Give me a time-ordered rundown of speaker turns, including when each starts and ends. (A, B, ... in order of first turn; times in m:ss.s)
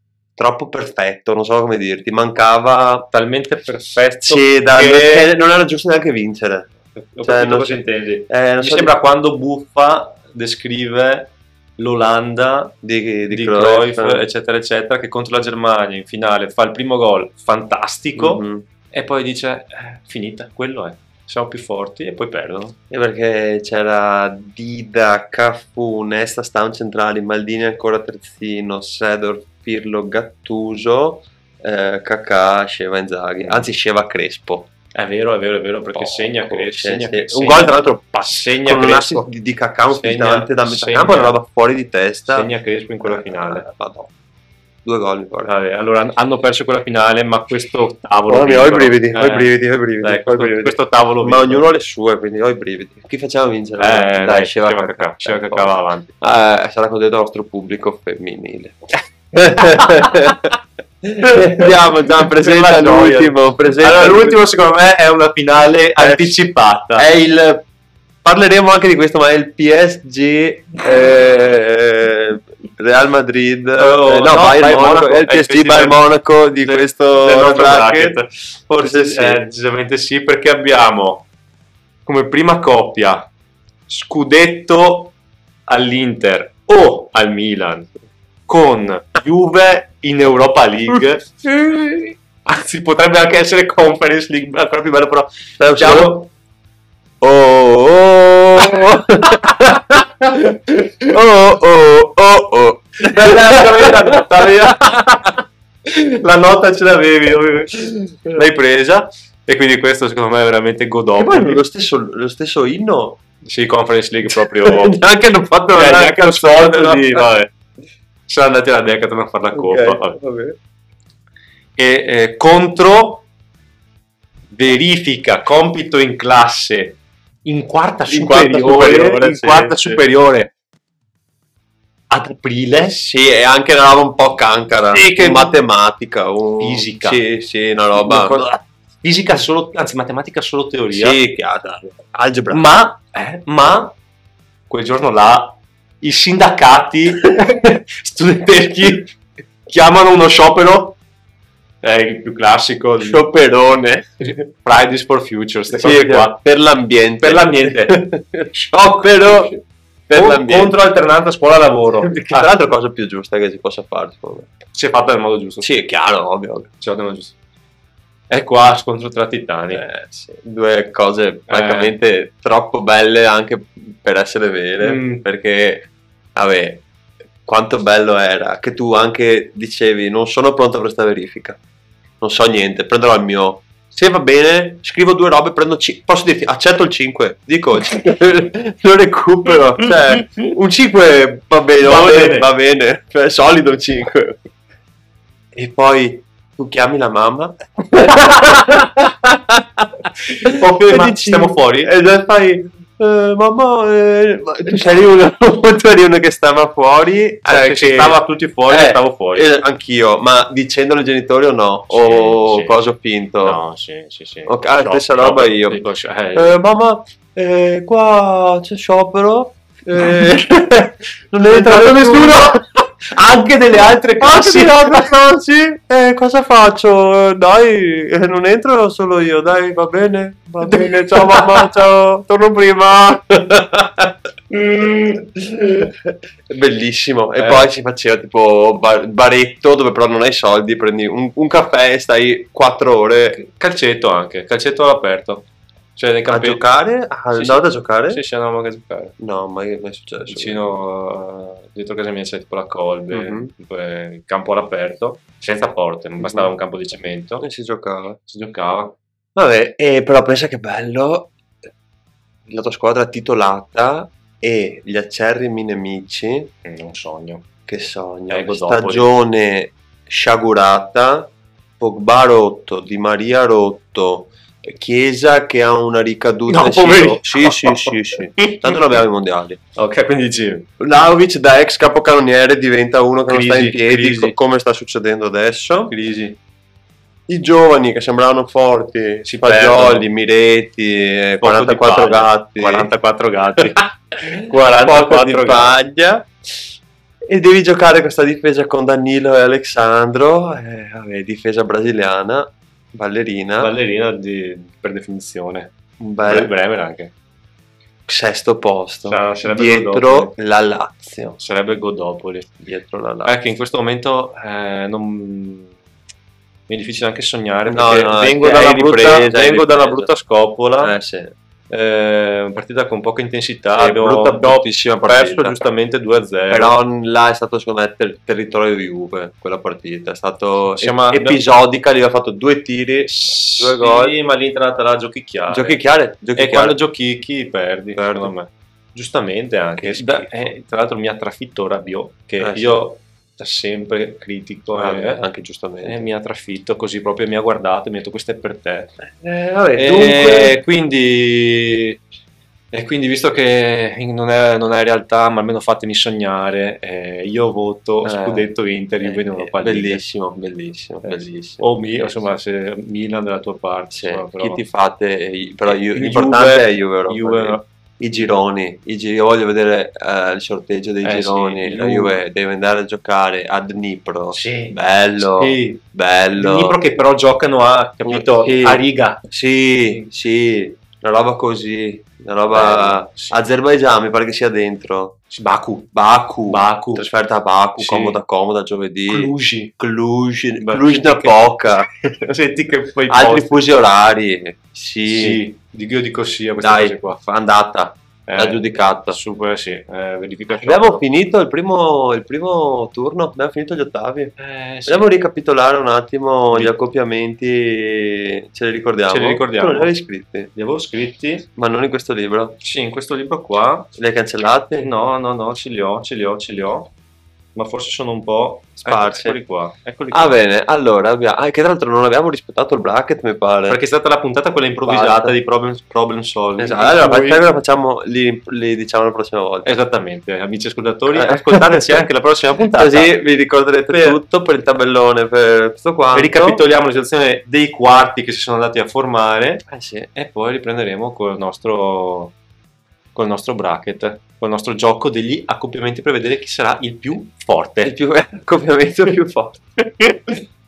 0:00.4-0:03.1 A
0:03.1-0:05.3 B
0:04.3-0:09.0 A
0:06.9-0:12.8 B
0:12.8-0:14.2 A
0:13.3-0:22.7 B
0:18.2-0:18.6 A
0:22.9-0:34.7 A
0:33.4-0:33.7 B
0:34.9-0:39.3 B
0:35.9-0:42.5 A
0:39.9-0:41.4 B
0:42.3-0:43.6 B
0:43.0-0:44.1 A
0:44.8-0:45.5 A
0:45.4-0:51.6 B
0:48.3-1:04.5 A
0:53.8-0:56.1 B
0:59.6-1:00.1 B
1:01.2-1:07.1 B
1:06.0-1:07.6 A
1:08.2-1:18.2 A
1:13.8-1:16.0 B
1:16.6-1:21.3 B
1:18.8-1:19.4 A
1:22.0-1:23.3 B
1:23.9-1:25.1 B
1:25.7-1:27.9 B
1:28.5-1:31.3 B
1:31.4-1:32.1 A
1:32.4-1:36.3 B
1:35.6-1:36.2 A
1:37.2-1:44.7 A
1:43.0-1:51.6 B
1:51.2-1:53.2 A
1:53.4-1:55.0 B
1:54.3-1:57.3 A
1:55.7-1:57.5 B
1:58.3-2:00.2 B
1:59.5-2:00.6 A
2:01.8-2:03.2 B
2:04.5-2:10.5 B
2:08.1-2:10.0 A
2:12.1-2:13.0 B
2:12.8-2:18.5 A
2:14.9-2:15.6 B
2:16.6-2:17.2 B
2:17.9-2:21.2 B
2:20.9-2:22.7 A
2:22.5-2:23.9 B
2:24.7-2:31.0 B
2:31.8-2:33.3 B
2:33.0-2:34.0 A
2:34.2-2:36.4 B
2:35.7-2:40.8 A
2:37.2-2:38.1 B
2:40.1-2:42.5 B
2:42.0-2:44.5 A
2:44.7-2:45.7 B
2:45.6-2:46.7 A
2:46.8-2:47.3 B
2:48.3-2:49.8 B
2:49.7-2:56.8 A
2:51.5-2:51.9 B
2:54.8-2:55.2 B
2:57.4-3:01.6 A
3:02.2-3:14.4 A
3:11.8-3:12.5 B
3:15.5-3:33.6 A
3:20.4-3:21.9 B
3:27.4-3:29.5 B
3:31.9-3:32.8 B
3:33.4-3:36.6 B
3:34.5-3:35.8 A
3:36.3-4:03.4 A
3:41.4-3:42.6 B
3:43.7-3:45.1 B
3:50.7-3:51.4 B
3:57.4-3:57.7 B
4:03.3-4:05.4 B
4:06.0-4:06.6 B
4:06.3-4:08.2 A
4:07.3-4:09.1 B
4:09.2-4:10.7 A
4:10.2-4:17.5 B
4:13.1-4:13.5 A
4:16.2-4:16.5 A
4:17.4-4:18.2 A
4:18.2-4:19.0 B
4:19.3-4:21.3 A
4:22.5-4:26.5 A
4:26.6-4:27.4 B
4:27.7-4:39.6 A
4:28.3-4:29.1 B
4:36.5-4:39.0 B
4:39.8-4:40.7 B
4:40.8-4:45.9 A
4:43.3-4:44.3 B
4:45.9-4:46.3 B
4:47.3-4:52.9 A
4:49.2-4:50.1 B
4:51.4-4:55.7 B
4:54.2-4:56.3 A
4:57.3-5:03.7 A
5:03.6-5:05.7 B
5:06.0-5:06.5 A
5:06.2-5:07.1 B
5:08.1-5:11.4 A
5:09.1-5:10.3 B
5:11.4-5:12.5 B
5:12.6-5:13.4 A
5:13.2-5:15.7 B
5:16.7-5:20.9 B
5:17.7-5:20.1 A
5:20.8-5:21.3 A
5:21.7-5:26.7 B
5:23.8-5:25.6 A
5:26.5-5:34.1 A
5:30.8-5:31.4 B
5:33.1-5:35.8 B
5:35.5-5:36.8 A
5:36.3-5:45.2 B
5:38.0-5:38.3 A
5:39.8-5:40.5 A
5:42.4-5:42.8 A
5:44.7-5:46.1 A
5:45.8-5:48.9 B
5:49.1-5:50.6 A
5:49.7-5:52.0 B
5:52.7-6:00.0 B
5:58.0-5:58.5 A
5:59.0-6:02.1 A
6:01.0-6:04.6 B
6:03.9-6:16.8 A
6:05.6-6:07.6 B
6:11.0-6:12.2 B
6:14.3-6:15.8 B
6:16.4-6:19.2 B
6:18.0-6:25.2 A
6:22.5-6:23.4 B
6:25.3-6:25.9 B
6:25.9-6:31.9 A
6:26.5-6:27.1 B
6:27.8-6:28.2 B
6:29.1-6:29.7 B
6:30.6-6:31.4 B
6:32.1-6:33.5 B
6:33.1-6:35.4 A
6:35.1-6:37.2 B
6:36.6-6:39.2 A
6:38.3-6:41.0 B
6:40.6-6:50.5 A
6:44.4-6:45.1 B
6:49.1-6:49.9 B
6:50.5-6:51.4 B
6:51.6-6:52.6 A
6:52.6-6:53.9 B
6:54.0-6:54.9 A
6:54.8-6:56.9 B
6:57.5-7:00.4 B
6:58.8-6:59.4 A
7:00.1-7:03.8 A
7:03.7-7:07.4 B
7:04.8-7:05.3 A
7:06.6-7:09.7 A
7:09.6-7:13.2 B
7:11.1-7:12.0 A
7:12.7-7:16.6 A
7:13.9-7:14.2 B
7:16.1-7:22.3 B
7:19.7-7:20.1 A
7:23.1-7:27.9 B
7:27.8-7:30.3 A